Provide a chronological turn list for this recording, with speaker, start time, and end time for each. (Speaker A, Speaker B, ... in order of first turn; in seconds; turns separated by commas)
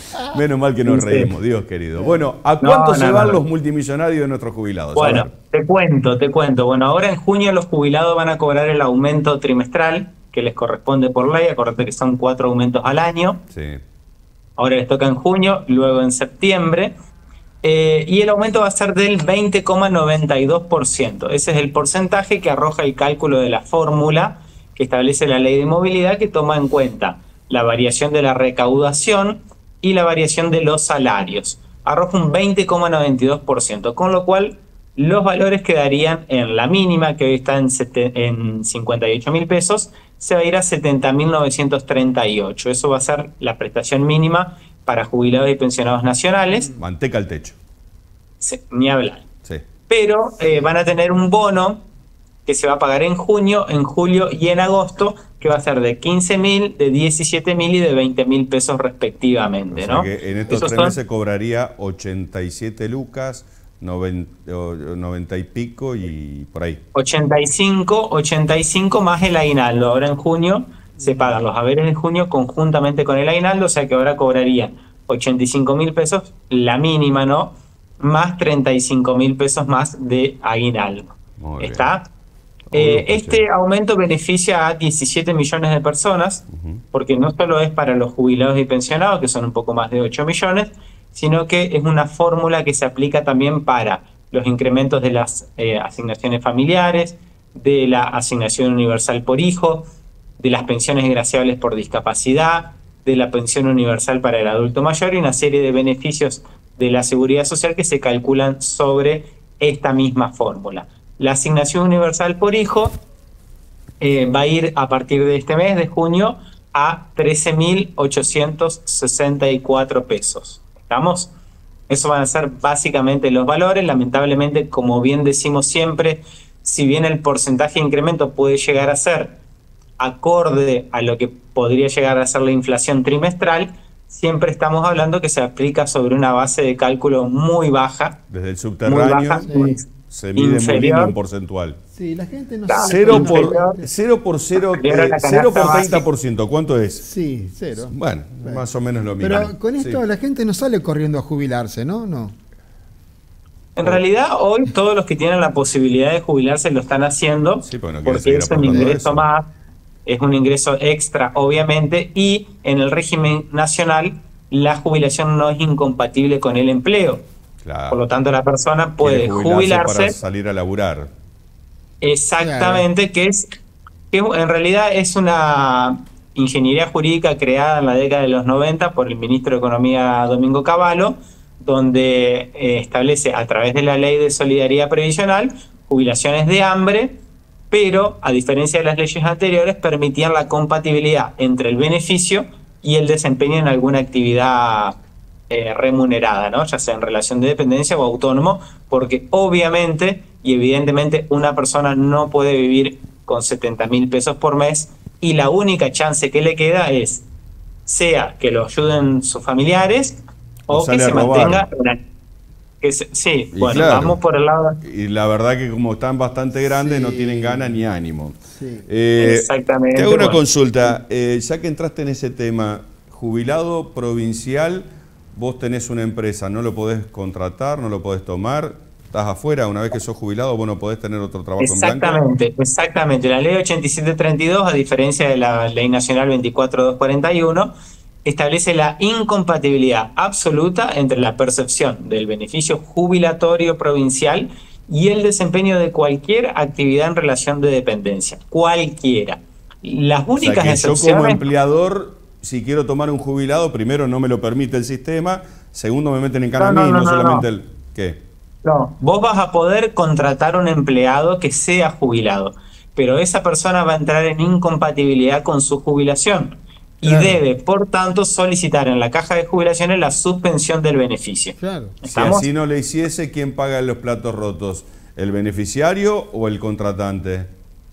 Speaker A: 0.3-5.3, Speaker B: 0.9-1.3, Speaker C: 2.0-2.2, Speaker B: 2.6-3.4, Speaker B: 5.0-13.4, Speaker A: 13.5-13.8, Speaker B: 14.6-16.9, Speaker B: 17.6-46.7, Speaker A: 46.8-47.6, Speaker B: 48.4-49.2, Speaker B: 49.9-51.8, Speaker B: 52.5-61.0, Speaker A: 59.7-66.8, Speaker B: 67.0-82.1, Speaker A: 81.4-81.9, Speaker A: 82.7-83.4, Speaker B: 82.7-99.9, Speaker A: 86.5-86.8, Speaker B: 100.4-113.0, Speaker B: 114.0-121.3, Speaker B: 121.9-129.4, Speaker B: 130.0-138.2, Speaker A: 138.3-139.5, Speaker B: 138.9-141.2, Speaker C: 139.4-139.8, Speaker A: 140.1-141.8, Speaker C: 141.9-143.9, Speaker B: 142.7-143.8, Speaker A: 142.8-147.1, Speaker B: 144.6-146.1, Speaker C: 147.0-148.6, Speaker A: 147.7-150.0, Speaker C: 149.2-152.3, Speaker B: 153.8-159.5, Speaker A: 157.6-159.3, Speaker C: 158.7-158.9, Speaker B: 160.1-167.2, Speaker A: 167.6-168.0, Speaker B: 167.9-170.2, Speaker A: 169.0-171.1, Speaker B: 172.0-173.4, Speaker C: 172.4-172.9, Speaker B: 174.1-187.2, Speaker B: 187.7-195.0, Speaker B: 195.5-207.2, Speaker B: 207.9-212.0, Speaker A: 210.7-211.7, Speaker B: 212.8-214.8, Speaker A: 213.5-214.2, Speaker A: 214.8-232.2, Speaker C: 216.7-217.9, Speaker C: 218.6-218.9, Speaker B: 219.2-220.4, Speaker B: 231.6-237.7, Speaker B: 238.2-251.4, Speaker A: 250.4-258.2, Speaker B: 256.6-257.5, Speaker B: 258.6-272.5, Speaker C: 267.0-267.4, Speaker C: 271.6-272.0, Speaker A: 272.1-277.5